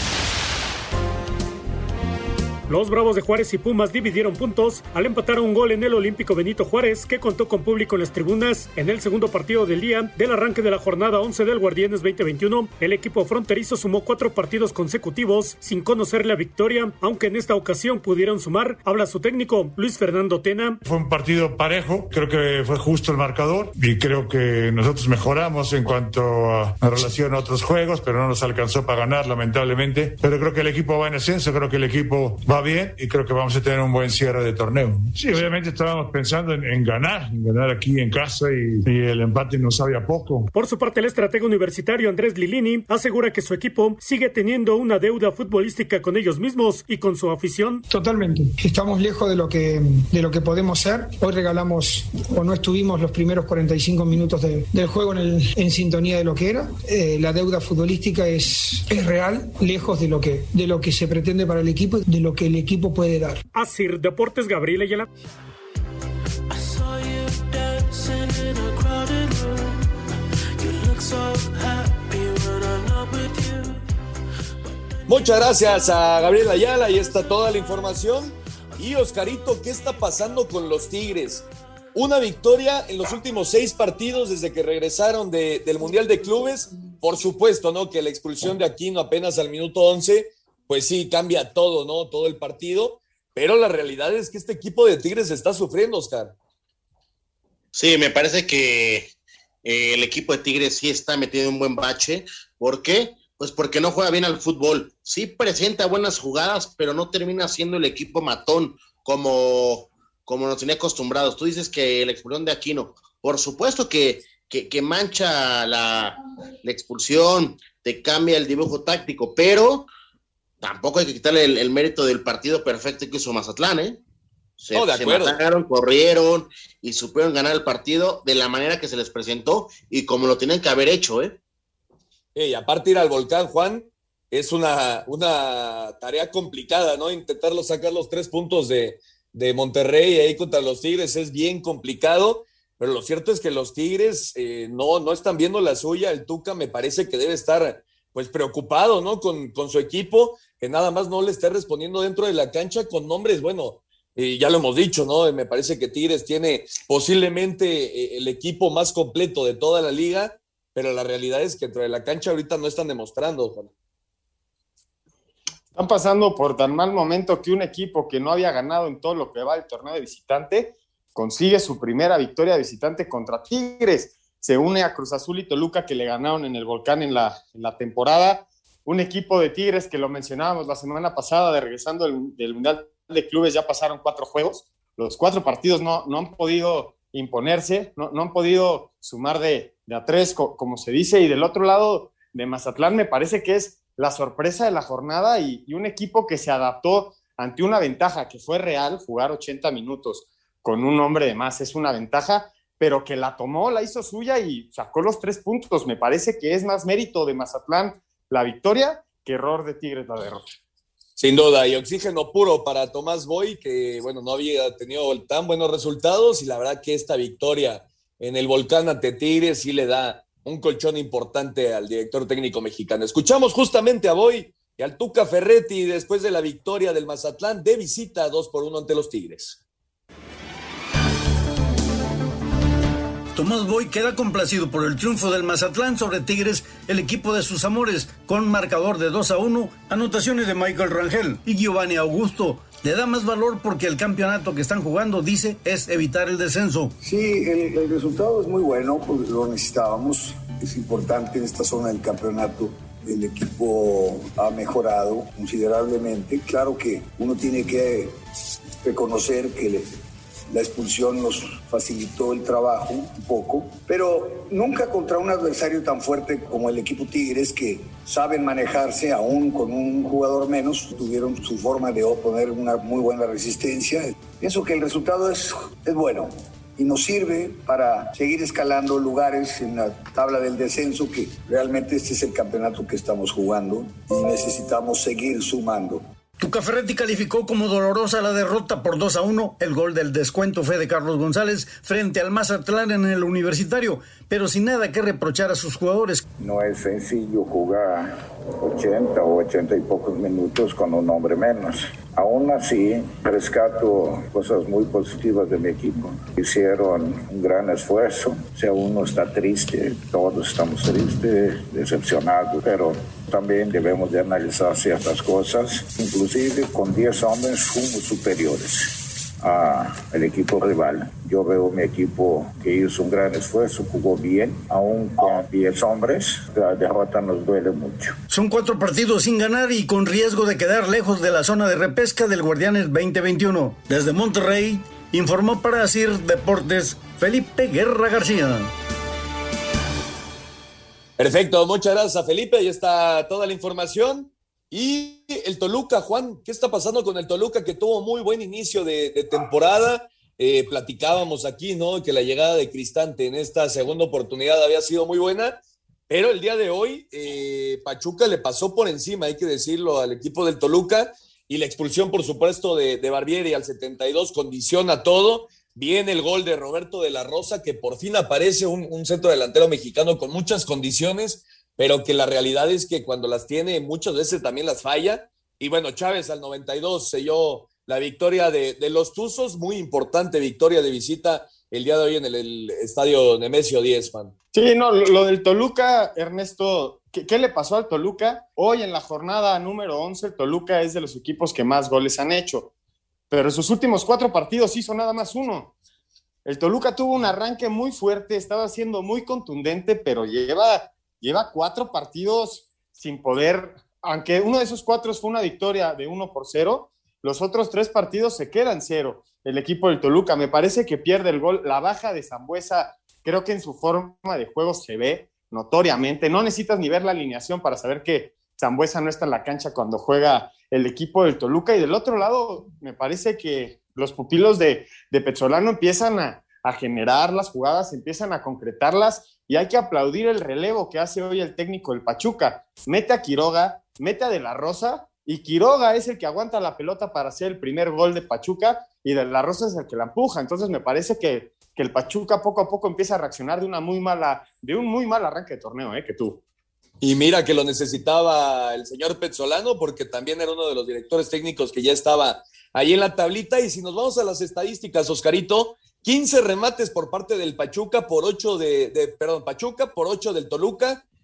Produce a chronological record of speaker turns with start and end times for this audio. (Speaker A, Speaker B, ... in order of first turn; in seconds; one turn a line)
Speaker A: 2.7-20.8
Speaker B: 20.9-40.4
Speaker A: 40.5-47.8
Speaker C: 47.9-63.4
Speaker A: 63.5-65.1
Speaker D: 75.1-96.3
Speaker E: 97.7-99.1
Speaker E: 99.6-119.9
Speaker E: 120.6-124.0
Speaker E: 124.6-131.3
Speaker D: 124.7-125.3
Speaker D: 132.3-163.7
Speaker F: 165.7-210.4
Speaker D: 211.2-229.6
Speaker G: 233.3-246.9
Speaker H: 247.0-258.2
Speaker H: 258.8-259.9
Speaker H: 260.5-286.0
Speaker G: 286.4-296.2
Speaker H: 296.4-328.2
Speaker G: 328.3-338.7
Speaker D: 341.2-355.5
Speaker D: 356.1-384.3
Speaker F: 384.5-392.7
Speaker F: 393.3-395.7
Speaker F: 396.4-446.4
Speaker D: 447.0-461.0